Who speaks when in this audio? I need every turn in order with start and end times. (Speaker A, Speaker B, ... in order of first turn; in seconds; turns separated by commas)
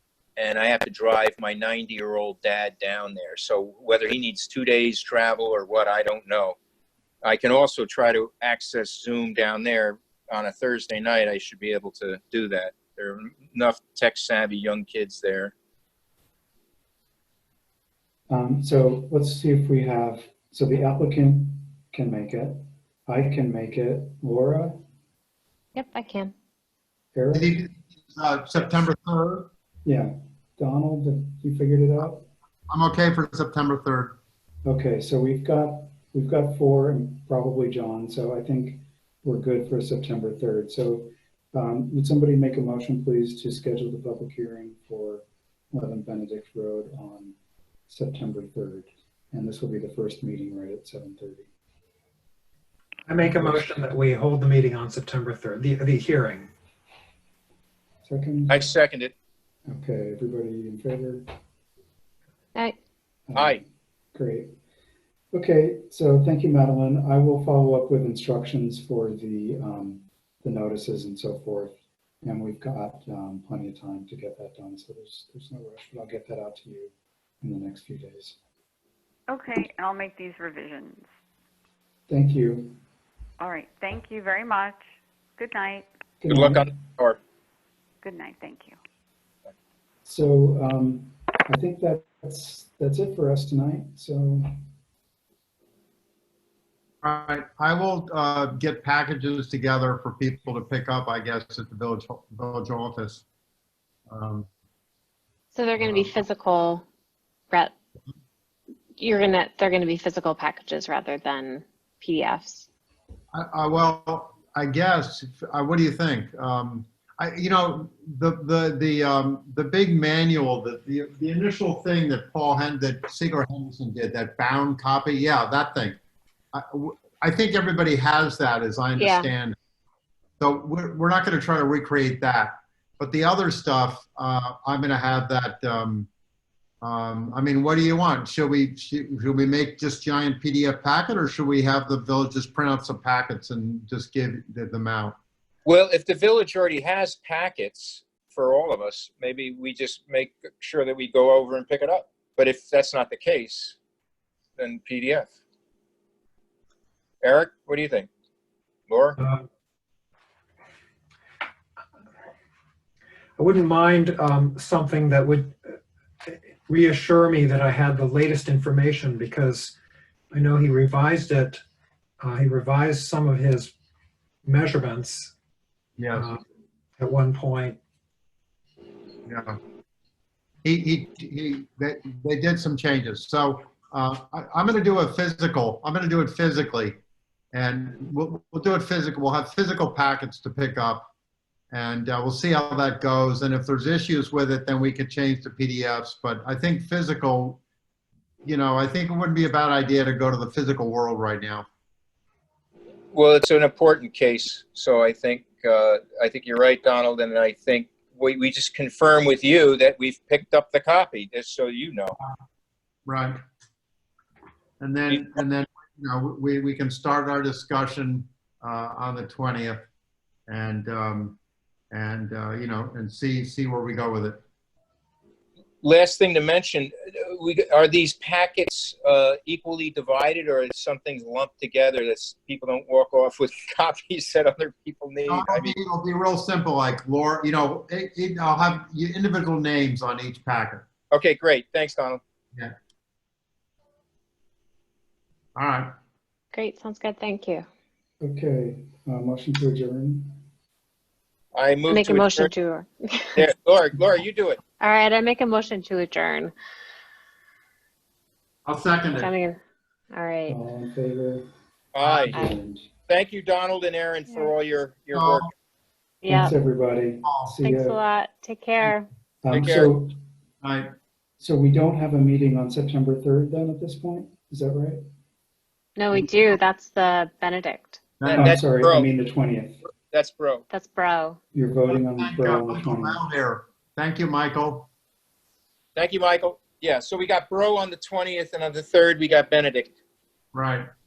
Speaker A: 0.4-6.6, Speaker A: 7.2-15.5, Speaker B: 18.3-24.8, Speaker C: 25.7-26.3, Speaker B: 27.1-27.5, Speaker D: 27.3-29.5, Speaker B: 29.9-32.3, Speaker D: 32.7-34.2, Speaker B: 34.6-47.3, Speaker B: 47.9-51.5, Speaker E: 53.1-56.5, Speaker B: 53.2-53.8, Speaker B: 58.0-58.6, Speaker A: 58.5-59.1, Speaker B: 59.7-61.2, Speaker B: 63.3-64.5, Speaker A: 63.4-63.6, Speaker B: 65.3-78.4, Speaker F: 79.3-81.1, Speaker B: 82.1-82.8, Speaker F: 83.4-84.8, Speaker F: 85.4-85.9, Speaker B: 86.2-86.8, Speaker A: 86.3-87.2, Speaker F: 88.0-88.8, Speaker B: 90.0-94.5, Speaker D: 97.0-103.2, Speaker D: 104.1-104.5, Speaker C: 105.5-106.8, Speaker D: 105.8-106.2, Speaker C: 109.0-112.7, Speaker D: 113.3-126.0, Speaker D: 126.5-129.6, Speaker C: 129.0-129.3, Speaker D: 130.4-136.1, Speaker D: 136.8-145.2, Speaker A: 145.7-153.8, Speaker A: 154.6-155.3, Speaker A: 157.2-158.1, Speaker A: 158.9-159.2, Speaker E: 159.2-159.5, Speaker E: 163.4-169.8, Speaker E: 170.3-171.6, Speaker E: 172.2-173.7, Speaker E: 174.4-175.3, Speaker D: 176.0-176.3, Speaker E: 176.1-176.4, Speaker E: 177.0-177.8, Speaker D: 179.3-179.6, Speaker D: 180.6-187.0, Speaker D: 187.5-191.1, Speaker D: 191.7-197.6, Speaker D: 198.4-201.7, Speaker A: 203.1-212.2, Speaker D: 213.1-213.4, Speaker D: 214.8-219.8, Speaker D: 220.5-221.4, Speaker D: 221.9-224.4, Speaker A: 225.8-235.7, Speaker D: 235.3-240.8, Speaker A: 241.1-242.2, Speaker D: 245.6-245.9, Speaker C: 246.5-247.7, Speaker B: 248.2-250.4, Speaker A: 251.5-252.5, Speaker C: 251.9-253.4, Speaker A: 253.4-254.6, Speaker C: 254.8-256.5, Speaker D: 258.7-259.3, Speaker C: 259.1-259.6, Speaker C: 260.1-260.6, Speaker B: 260.5-261.5, Speaker A: 261.9-262.4, Speaker D: 262.0-262.4, Speaker B: 262.3-262.9, Speaker A: 263.1-265.5, Speaker D: 265.1-265.5, Speaker C: 266.2-266.5, Speaker B: 266.3-268.0, Speaker D: 267.2-267.6, Speaker C: 267.6-269.1, Speaker B: 269.4-270.2, Speaker A: 269.5-269.9, Speaker D: 270.6-270.9, Speaker B: 271.4-275.0, Speaker C: 276.0-278.0, Speaker D: 278.2-278.5, Speaker A: 278.2-279.1, Speaker B: 278.3-279.8, Speaker A: 279.9-280.7, Speaker C: 280.7-281.4, Speaker B: 281.5-283.2, Speaker D: 281.9-284.9, Speaker A: 286.0-289.9, Speaker D: 290.5-290.9